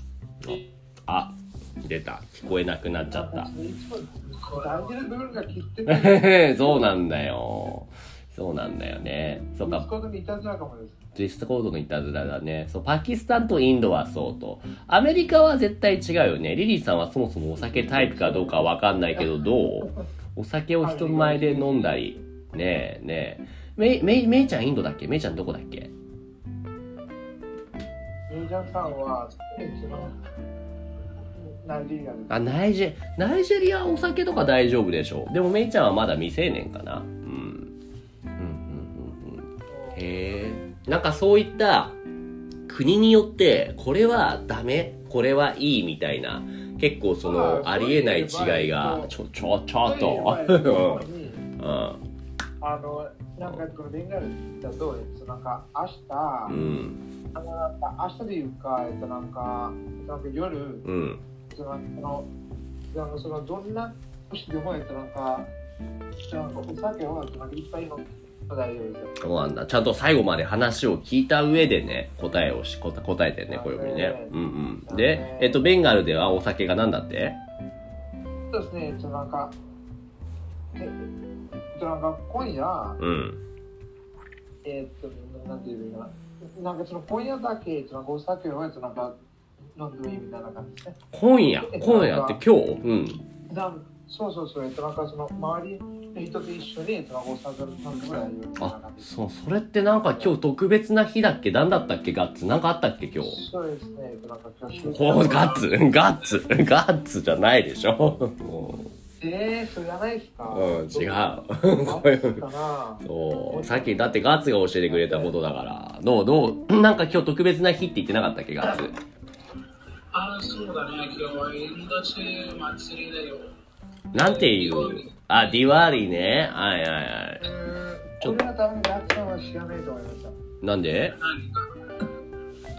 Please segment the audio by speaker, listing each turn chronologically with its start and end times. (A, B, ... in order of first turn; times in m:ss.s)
0:00.4-0:03.5 A
0:03.1-0:06.9 B
0:04.4-0:05.1 C
0:05.9-0:09.9 A
0:09.6-0:11.0 B
0:11.2-0:25.9 A
0:17.6-0:19.9 B
0:20.8-0:22.3 B
0:28.3-0:30.2 B
0:31.4-0:32.5 B
0:32.3-0:37.7 A
0:38.4-0:42.0 A
0:39.7-0:40.1 B
0:42.7-0:51.1 A
0:47.2-0:49.1 B
0:49.8-0:51.4 B
0:51.6-0:52.0 A
0:52.6-0:56.6 B
0:56.5-0:57.0 A
0:57.3-1:00.9 B
1:00.8-1:01.2 A
1:01.5-1:02.3 B
1:02.9-1:05.5 B
1:06.3-1:09.2 B
1:09.2-1:17.4 A
1:13.5-1:15.6 B
1:18.5-1:19.6 B
1:20.8-1:21.1 B
1:21.7-1:23.0 B
1:23.0-1:23.4 A
1:24.6-1:29.2 B
1:29.7-1:31.0 B
1:31.1-1:33.2 A
1:31.6-1:32.4 B
1:33.5-1:39.1 B
1:38.6-1:43.4 A
1:43.2-1:45.6 B
1:44.9-1:48.9 A
1:45.0-1:46.4 C
1:49.2-1:54.2 B
1:50.5-1:52.4 A
1:53.0-1:59.0 A
1:54.9-1:55.4 B
2:00.1-2:03.5 C
2:04.1-2:05.3 C
2:04.1-2:07.5 A
2:07.4-2:10.4 B
2:10.6-2:11.2 A
2:11.2-2:11.8 C